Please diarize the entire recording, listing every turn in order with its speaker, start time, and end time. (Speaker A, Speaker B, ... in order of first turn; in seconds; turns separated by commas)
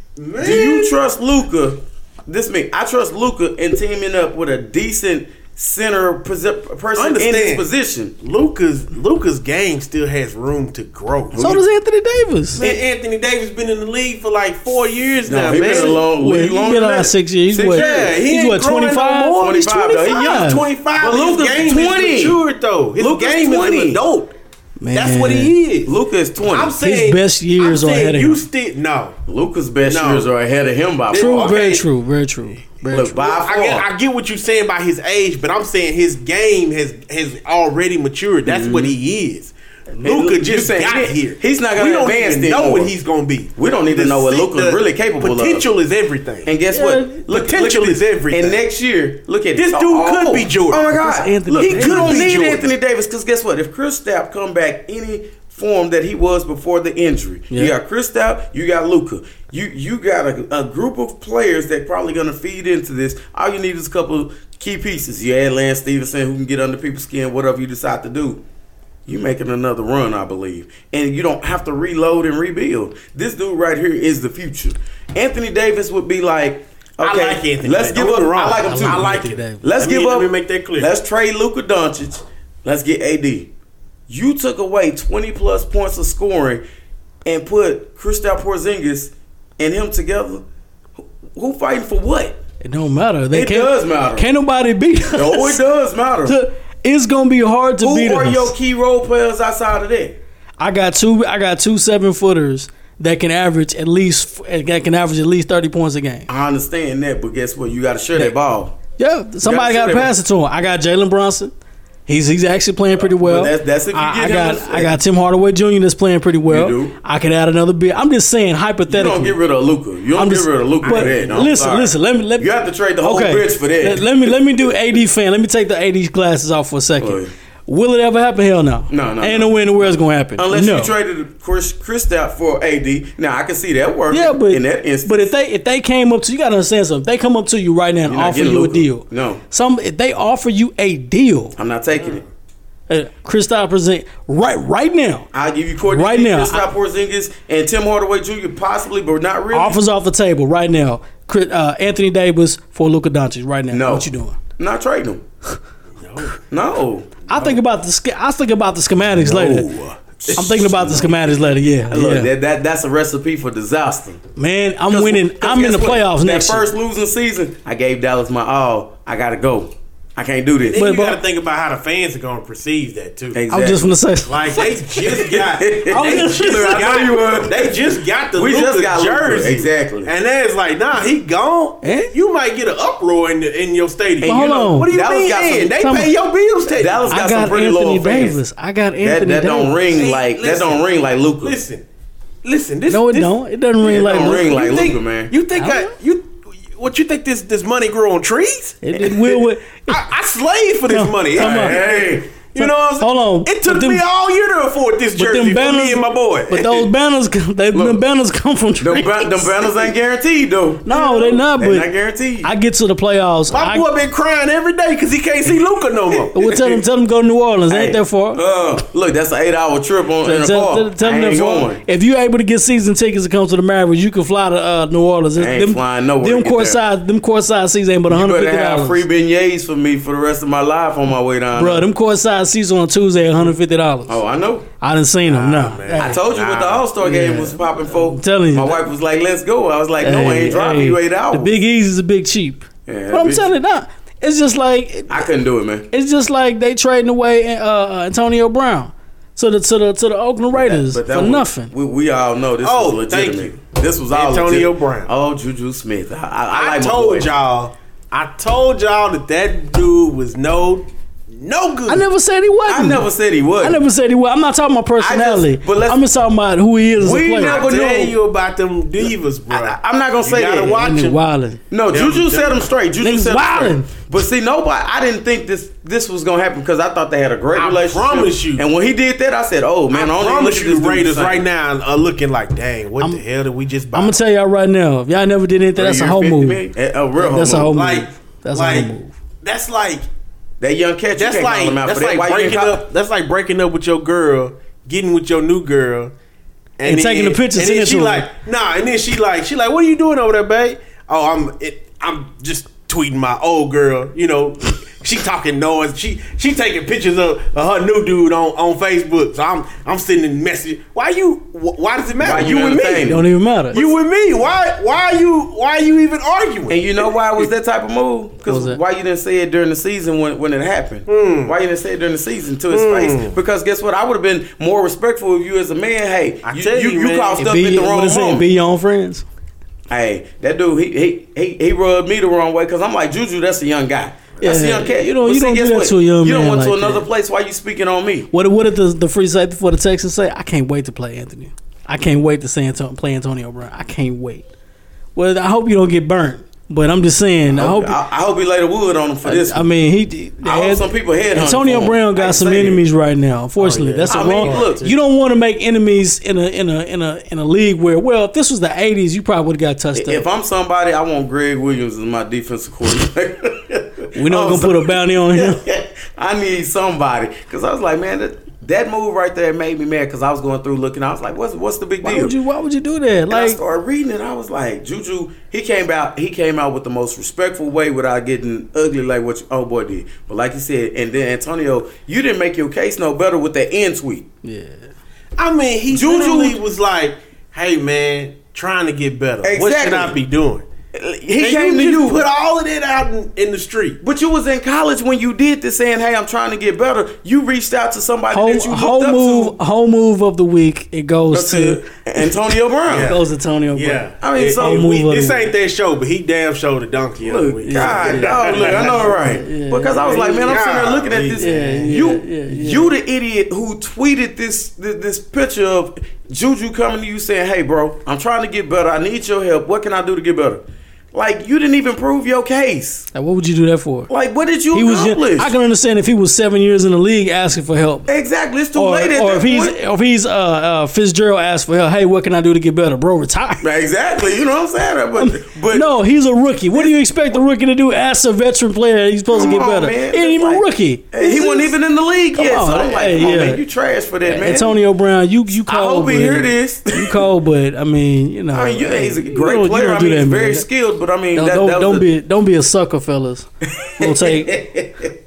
Speaker A: 0.2-1.0, Speaker B: 0.4-8.1, Speaker A: 7.0-7.7, Speaker A: 8.2-11.5, Speaker B: 11.3-11.6, Speaker C: 11.4-12.6, Speaker A: 12.6-16.0, Speaker B: 15.2-18.2, Speaker C: 16.1-20.6, Speaker A: 17.7-24.3, Speaker B: 19.4-22.4, Speaker B: 23.0-24.0, Speaker C: 24.8-25.5, Speaker A: 24.9-29.1, Speaker B: 25.8-26.8, Speaker C: 26.8-28.4, Speaker B: 29.2-31.6, Speaker A: 29.9-30.3, Speaker A: 31.1-31.9, Speaker C: 31.1-33.1, Speaker B: 32.9-33.9, Speaker A: 32.9-46.5, Speaker B: 38.5-39.0, Speaker B: 40.0-42.9, Speaker B: 43.5-45.7, Speaker B: 46.4-68.4, Speaker C: 46.7-47.2, Speaker A: 47.3-48.6, Speaker A: 49.5-52.7, Speaker C: 50.9-52.3, Speaker B: 69.0-83.5, Speaker A: 77.0-80.9, Speaker C: 78.5-79.7, Speaker B: 84.1-86.6, Speaker B: 87.2-92.4, Speaker C: 92.6-95.6, Speaker B: 93.3-94.3, Speaker B: 95.1-96.4, Speaker C: 96.2-98.5, Speaker B: 97.8-100.2, Speaker C: 100.6-106.3, Speaker B: 106.3-108.8, Speaker C: 109.0-111.5, Speaker B: 109.4-110.1, Speaker C: 112.1-119.4, Speaker B: 112.9-115.0, Speaker B: 116.5-117.0, Speaker B: 118.9-124.3, Speaker C: 120.1-130.9, Speaker A: 120.8-121.4, Speaker B: 127.0-127.3, Speaker B: 128.9-135.3, Speaker C: 134.1-141.5, Speaker B: 138.1-139.4, Speaker B: 141.6-142.2, Speaker A: 141.9-142.2, Speaker C: 142.9-145.3, Speaker B: 145.3-149.8, Speaker C: 145.8-146.7, Speaker C: 149.5-154.4, Speaker B: 153.7-155.2, Speaker A: 156.0-156.3, Speaker B: 156.5-157.6, Speaker C: 157.3-159.7, Speaker B: 159.2-164.2, Speaker C: 160.4-162.3, Speaker C: 164.3-166.7, Speaker B: 164.9-170.8, Speaker A: 170.7-173.4, Speaker C: 170.7-171.2, Speaker B: 173.3-173.9, Speaker C: 173.5-177.0, Speaker A: 174.3-187.2, Speaker B: 175.3-180.1, Speaker C: 181.8-182.1, Speaker C: 184.2-184.9, Speaker B: 184.9-185.8, Speaker C: 185.8-186.1, Speaker B: 186.7-188.4, Speaker C: 187.1-189.8, Speaker B: 189.0-191.6, Speaker A: 189.9-191.8, Speaker A: 192.4-193.3, Speaker C: 192.9-194.6, Speaker B: 193.8-195.3, Speaker A: 194.1-206.8, Speaker C: 195.6-195.9, Speaker C: 198.8-199.9, Speaker C: 200.9-201.8, Speaker B: 201.3-202.3, Speaker C: 202.6-204.0, Speaker C: 205.2-209.7, Speaker B: 207.7-208.0, Speaker B: 208.8-212.5, Speaker C: 210.8-211.9, Speaker A: 211.0-211.4, Speaker C: 212.4-213.9, Speaker A: 213.5-216.8, Speaker C: 216.3-218.4, Speaker B: 217.7-221.8, Speaker C: 220.2-229.0, Speaker B: 225.3-226.8, Speaker B: 228.1-231.9, Speaker C: 231.5-234.2, Speaker B: 234.1-234.7, Speaker C: 234.8-236.2, Speaker A: 235.3-236.8, Speaker B: 236.0-241.6, Speaker C: 237.0-238.8, Speaker C: 240.0-245.3, Speaker B: 242.8-243.5, Speaker B: 245.1-245.9, Speaker C: 245.9-251.7, Speaker B: 250.5-257.3, Speaker A: 252.6-255.1, Speaker A: 256.5-262.0, Speaker C: 261.9-263.1, Speaker B: 262.7-263.8, Speaker C: 263.6-267.6, Speaker B: 265.0-266.0, Speaker B: 267.0-268.1, Speaker A: 267.3-271.2, Speaker B: 269.5-270.9, Speaker C: 270.8-271.6, Speaker B: 271.7-281.4, Speaker A: 271.9-272.7, Speaker C: 273.0-273.9, Speaker A: 277.5-278.6, Speaker A: 279.9-284.2, Speaker C: 283.9-286.6, Speaker B: 285.8-287.8, Speaker C: 287.2-289.1, Speaker A: 287.7-288.9, Speaker A: 289.4-290.0, Speaker B: 290.6-292.8, Speaker A: 291.1-296.1, Speaker A: 296.8-317.5, Speaker C: 296.8-298.3, Speaker B: 312.2-313.9, Speaker C: 313.0-313.8, Speaker B: 316.7-328.5, Speaker C: 318.4-318.8, Speaker A: 321.1-321.5, Speaker A: 322.7-323.4, Speaker A: 326.4-327.4, Speaker C: 327.4-329.2, Speaker B: 329.9-338.3, Speaker C: 334.4-337.1, Speaker C: 338.3-344.5, Speaker C: 345.1-348.0, Speaker B: 347.5-349.6, Speaker C: 349.2-360.2, Speaker B: 350.4-352.8, Speaker A: 353.6-354.9, Speaker B: 354.1-354.9, Speaker B: 359.9-372.3, Speaker C: 364.1-365.6, Speaker C: 372.0-373.6, Speaker B: 373.3-384.3, Speaker C: 384.4-384.9, Speaker A: 385.4-390.6, Speaker B: 385.9-386.6, Speaker B: 389.4-390.2, Speaker B: 390.9-392.2, Speaker A: 391.4-394.0, Speaker B: 394.0-399.6, Speaker C: 398.3-401.8, Speaker B: 401.3-403.1, Speaker A: 402.9-403.2, Speaker C: 403.1-404.0, Speaker A: 403.7-409.2, Speaker B: 404.2-404.8, Speaker C: 404.6-405.5, Speaker B: 407.2-423.1, Speaker C: 407.6-410.5, Speaker A: 410.1-411.8, Speaker C: 411.4-412.9, Speaker C: 423.1-424.1, Speaker B: 424.1-425.5, Speaker C: 424.7-428.1, Speaker B: 428.1-429.8, Speaker C: 428.7-433.6, Speaker B: 433.6-435.9, Speaker C: 435.2-441.7, Speaker B: 439.3-444.8, Speaker C: 442.3-443.6, Speaker C: 444.2-450.6, Speaker B: 445.6-447.2, Speaker B: 448.5-452.1, Speaker C: 451.3-454.6, Speaker B: 453.6-455.1